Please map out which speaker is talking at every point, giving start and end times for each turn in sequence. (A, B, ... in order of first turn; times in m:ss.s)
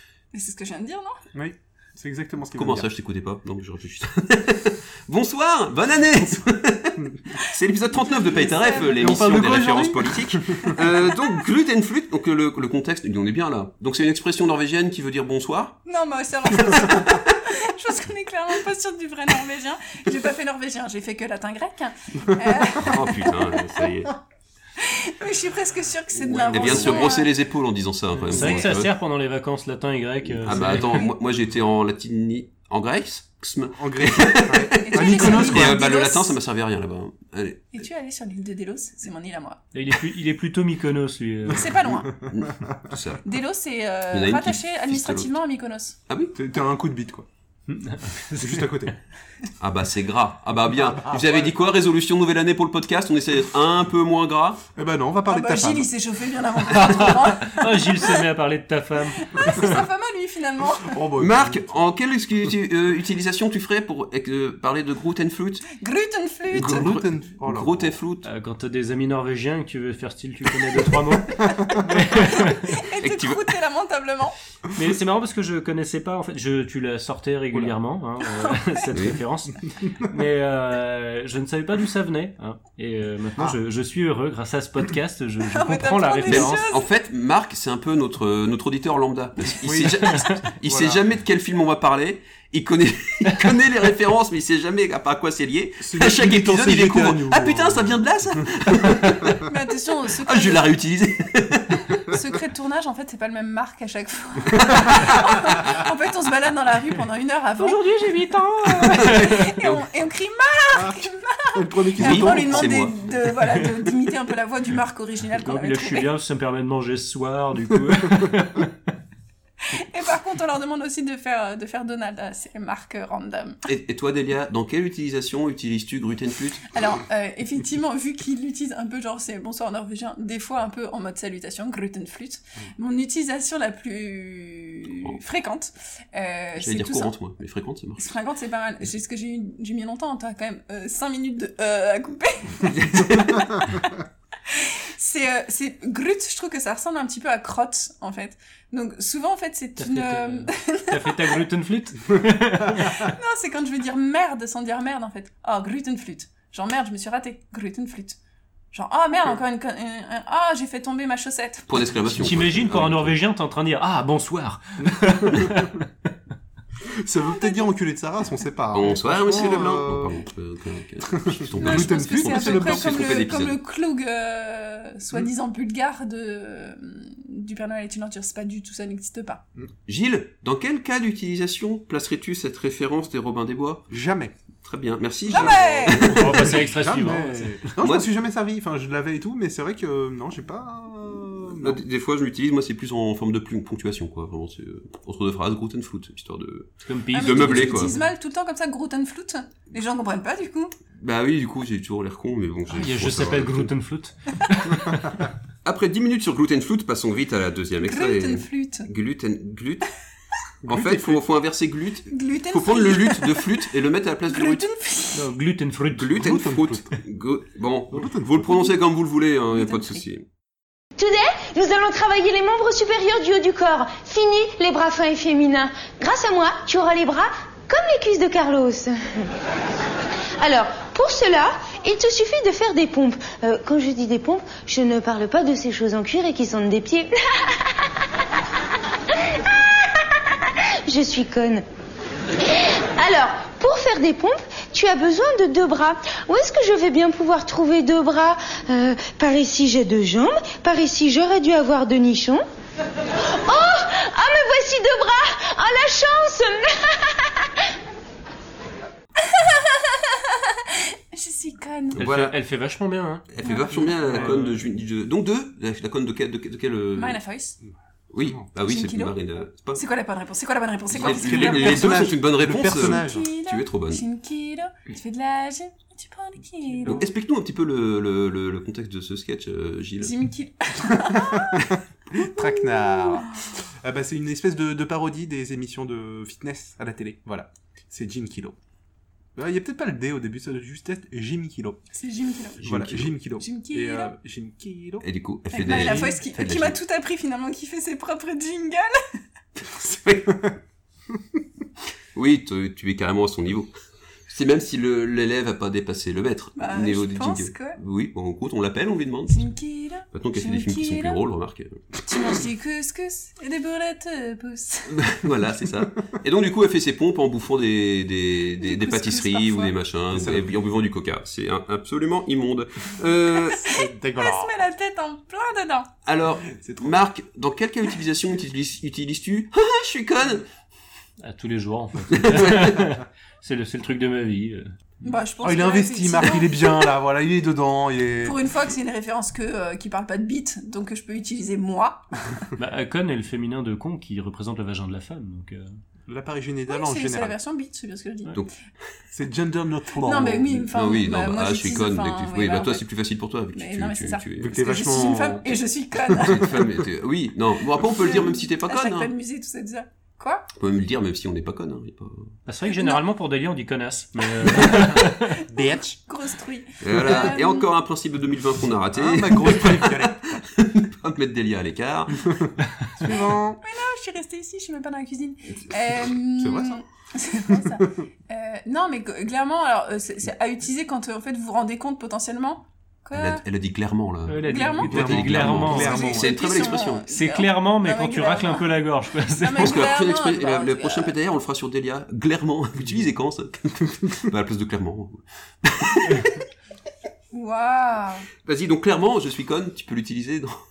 0:00.3-0:01.2 A
0:01.3-0:02.9 B
0:02.5-0:15.8 C
0:07.9-0:09.2 A
0:08.6-0:10.9 B
0:15.8-0:23.3 A
0:16.6-0:17.2 C
0:22.8-0:24.1 C
0:24.8-0:27.3 A
0:26.2-0:28.9 C
0:26.2-0:27.2 B
0:28.2-0:28.6 B
0:28.3-0:31.1 D
0:30.2-0:37.7 C
0:33.8-0:35.8 B
0:34.8-0:36.3 A
0:37.7-0:39.6 A
0:39.7-0:41.8 D
0:41.5-0:42.1 A
0:42.2-0:42.9 B
0:42.3-0:43.2 C
0:43.2-0:46.0 A
0:44.1-0:45.3 C
0:46.3-0:47.7 B
0:47.8-0:48.7 D
0:48.3-0:48.9 B
0:49.6-0:54.6 C
0:50.7-0:51.5 B
0:54.8-0:55.9 B
0:55.3-0:58.2 A
0:56.7-0:59.8 D
0:59.2-1:01.0 A
1:00.9-1:01.7 B
1:01.2-1:05.7 C
1:05.8-1:06.9 A
1:06.5-1:08.0 B
1:06.5-1:08.3 C
1:08.2-1:12.7 D
1:12.2-1:14.4 A
1:13.0-1:13.5 C
1:14.8-1:26.6 D
1:18.9-1:19.2 C
1:25.5-1:26.9 A
1:26.3-1:39.4 C
1:29.6-1:31.0 B
1:35.8-1:38.0 B
1:39.4-1:40.7 A
1:40.2-1:42.0 C
1:41.9-1:47.8 A
1:44.7-1:45.6 C
1:47.6-1:49.5 D
1:48.8-1:56.1 A
1:48.8-1:49.8 C
1:50.7-1:52.9 B
1:52.0-1:52.9 C
1:55.4-1:58.7 D
1:59.7-2:03.6 A
2:03.7-2:06.7 C
2:06.7-2:17.1 A
2:16.6-2:18.2 C
2:18.0-2:23.9 A
2:22.6-2:23.5 C
2:24.5-2:31.4 A
2:29.8-2:33.1 D
2:32.9-2:38.2 A
2:38.7-2:41.7 A
2:41.7-2:43.2 C
2:42.1-2:45.8 D
2:44.8-2:45.6 B
2:47.0-2:50.2 B
2:47.2-2:47.7 A
2:48.7-2:53.6 C
2:51.1-2:53.3 B
2:51.6-2:59.4 A
2:59.9-3:03.9 C
3:03.9-3:04.3 B
3:04.6-3:06.6 C
3:05.3-3:06.1 A
3:05.3-3:11.8 B
3:06.0-3:07.7 D
3:07.8-3:08.1 C
3:11.6-3:17.9 C
3:16.9-3:18.0 D
3:17.1-3:20.7 A
3:21.0-3:23.7 C
3:22.7-3:25.2 D
3:25.6-3:29.9 C
3:27.8-3:28.9 A
3:30.6-3:31.2 B
3:30.6-3:34.6 C
3:32.1-3:33.5 A
3:34.3-3:35.3 A
3:35.1-3:36.3 D
3:35.9-3:40.2 C
3:36.1-3:37.0 B
3:37.9-3:38.7 B
3:39.6-3:40.0 A
3:41.0-3:49.3 E
3:50.4-3:57.9 E
3:59.3-4:00.0 E
4:00.9-4:01.6 E
4:02.4-4:12.4 E
4:13.3-4:17.5 E
4:19.3-4:22.0 A
4:22.0-4:22.4 C
4:22.0-4:23.3 D
4:23.3-4:27.2 C
4:23.9-4:24.6 B
4:24.0-4:24.5 D
4:27.0-4:27.6 A
4:27.6-4:28.4 B
4:28.1-4:29.8 C
4:28.6-4:29.2 A
4:29.8-4:32.0 A
4:30.9-4:33.3 B
4:30.9-4:34.0 C
4:32.6-4:37.0 A
4:36.7-4:37.0 B
4:36.9-4:40.1 C
4:40.0-4:43.2 A
4:41.0-4:41.6 B
4:42.1-4:43.3 B
4:43.8-4:48.6 B
4:49.4-4:51.8 B
4:51.9-4:52.6 A
4:52.6-4:53.1 C
4:52.6-4:55.0 B
4:53.4-4:54.1 A
4:55.0-4:56.8 C
4:55.5-4:58.9 A
4:55.6-4:56.1 B
4:59.8-5:00.5 C
5:02.1-5:03.7 C
5:04.3-5:09.5 C
5:06.6-5:07.8 A
5:09.3-5:11.2 A
5:10.1-5:11.8 C
5:12.0-5:15.0 A
5:14.9-5:23.7 C
5:18.6-5:19.7 A
5:20.1-5:20.5 B
5:23.5-5:25.9 A
5:23.6-5:24.6 B
5:26.0-5:30.4 C
5:26.5-5:27.0 B
5:31.2-5:34.8 D
5:32.1-5:32.8 C
5:35.0-5:36.9 A
5:35.4-5:38.4 B
5:38.2-5:42.2 A
5:42.6-5:45.8 D
5:46.1-5:47.4 B
5:46.7-5:48.4 A
5:49.1-5:50.8 B
5:50.0-5:52.8 A
5:50.7-5:54.6 C
5:53.5-5:56.5 A
5:54.4-5:56.7 B
5:56.2-5:59.1 C
5:57.8-6:00.4 A
6:00.6-6:02.3 C
6:02.4-6:05.4 D
6:02.7-6:03.0 A
6:04.6-6:06.0 B
6:05.5-6:07.7 A
6:06.8-6:12.3 C
6:08.9-6:10.4 B
6:12.2-6:13.6 B
6:13.6-6:23.4 A
6:16.4-6:16.8 B
6:17.5-6:17.9 B
6:23.1-6:27.0 C
6:24.3-6:26.0 D
6:24.5-6:28.7 A
6:24.8-6:26.4 B
6:27.1-6:29.7 D
6:29.3-6:31.1 A
6:29.6-6:36.4 C
6:37.3-6:38.3 A
6:38.4-6:40.6 C